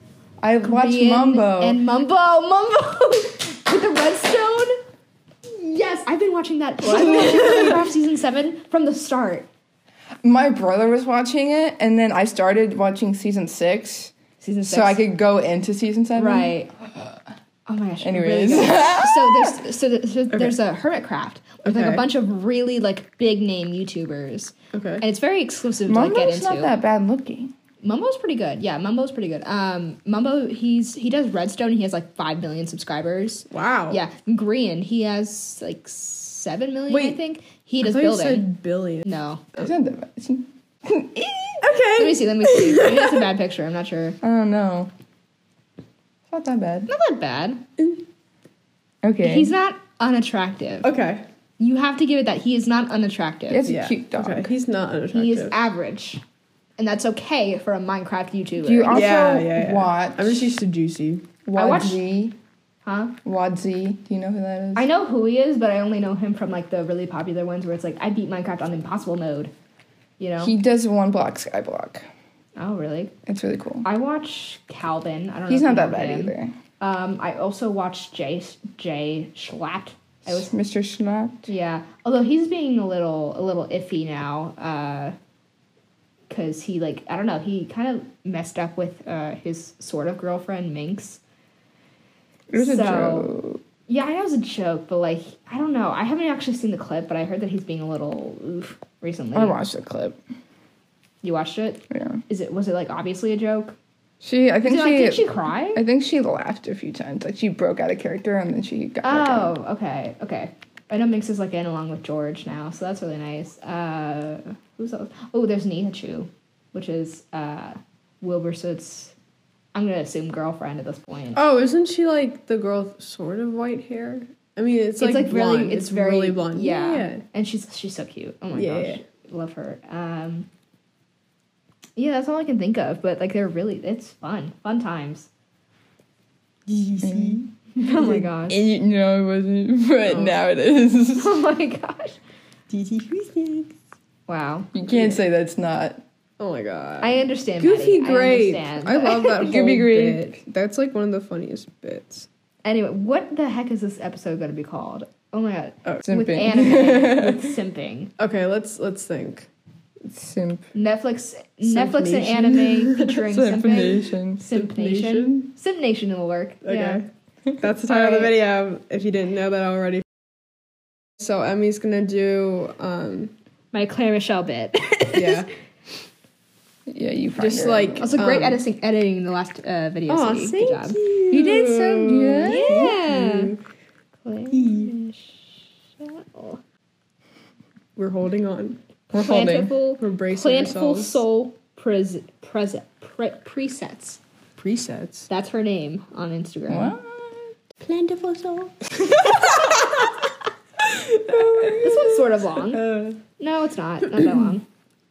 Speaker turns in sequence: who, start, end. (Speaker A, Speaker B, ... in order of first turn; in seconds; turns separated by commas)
Speaker A: 0.4-1.8, Speaker B: 0.6-4.8, Speaker B: 5.5-9.5, Speaker A: 6.9-7.8, Speaker A: 10.2-14.1, Speaker B: 14.4-15.0, Speaker A: 14.6-17.2, Speaker B: 16.1-16.7, Speaker B: 17.7-26.7, Speaker A: 18.0-19.6, Speaker C: 20.3-20.6, Speaker C: 21.6-22.1, Speaker C: 24.7-25.0, Speaker A: 25.9-27.5, Speaker B: 27.8-38.5, Speaker C: 33.5-34.0, Speaker C: 36.9-37.2, Speaker C: 37.8-39.0, Speaker B: 39.0-39.4, Speaker A: 39.6-41.6, Speaker C: 41.6-43.2, Speaker B: 42.0-44.2, Speaker A: 44.2-44.9, Speaker A: 46.3-46.9, Speaker B: 46.9-47.6, Speaker A: 49.0-49.5, Speaker B: 49.2-50.9, Speaker C: 50.8-51.2, Speaker B: 51.6-53.7, Speaker A: 53.5-54.5, Speaker C: 53.6-55.6, Speaker B: 55.1-56.2, Speaker B: 56.8-59.1, Speaker A: 58.6-60.5, Speaker C: 58.9-61.4, Speaker A: 61.4-62.4, Speaker B: 61.5-62.0, Speaker B: 62.8-63.1, Speaker A: 63.2-64.9, Speaker B: 64.7-69.5, Speaker B: 70.2-70.5, Speaker A: 70.4-72.0, Speaker B: 72.6-73.1, Speaker A: 73.2-73.8, Speaker B: 73.8-80.5, Speaker A: 75.5-76.5, Speaker A: 80.2-81.4, Speaker B: 81.5-85.1, Speaker B: 86.3-91.2, Speaker A: 92.5-93.6, Speaker B: 92.5-93.3, Speaker B: 93.9-99.6, Speaker A: 99.3-100.2, Speaker B: 101.2-103.8, Speaker A: 101.9-102.2, Speaker A: 104.2-109.5, Speaker B: 104.6-105.8, Speaker B: 109.0-119.1, Speaker B: 119.7-121.4, Speaker C: 121.3-127.2, Speaker B: 125.0-130.5, Speaker C: 128.5-129.0, Speaker B: 131.9-135.3, Speaker C: 136.7-137.5, Speaker A: 137.0-137.4, Speaker B: 137.8-138.6, Speaker A: 138.5-141.4, Speaker C: 140.1-140.4, Speaker B: 141.2-142.2, Speaker C: 142.7-143.7, Speaker B: 144.3-144.7, Speaker A: 144.7-146.0, Speaker C: 144.9-145.2, Speaker C: 146.4-152.3, Speaker B: 147.0-149.5, Speaker A: 149.4-150.4, Speaker B: 152.6-158.1, Speaker A: 156.1-157.5, Speaker C: 158.2-159.5, Speaker A: 160.0-160.7, Speaker B: 160.7-167.0, Speaker C: 161.6-163.2, Speaker A: 163.1-164.4, Speaker C: 164.5-165.5, Speaker C: 166.6-167.1, Speaker C: 167.6-170.0, Speaker C: 171.2-173.3, Speaker B: 173.7-175.4, Speaker C: 175.1-175.5, Speaker A: 176.9-178.2, Speaker C: 177.4-178.6, Speaker B: 178.0-183.5, Speaker C: 180.1-183.6, Speaker A: 182.0-182.9, Speaker B: 184.2-185.4, Speaker C: 184.5-184.9, Speaker B: 186.0-186.6, Speaker C: 187.9-188.8, Speaker A: 189.1-189.7, Speaker B: 189.1-194.2, Speaker C: 190.0-191.2, Speaker C: 194.6-195.3, Speaker B: 195.3-196.9, Speaker A: 196.7-197.5, Speaker C: 197.8-198.7, Speaker B: 199.1-199.9, Speaker C: 201.0-202.1, Speaker A: 201.3-202.2, Speaker B: 201.8-204.6, Speaker C: 202.7-203.2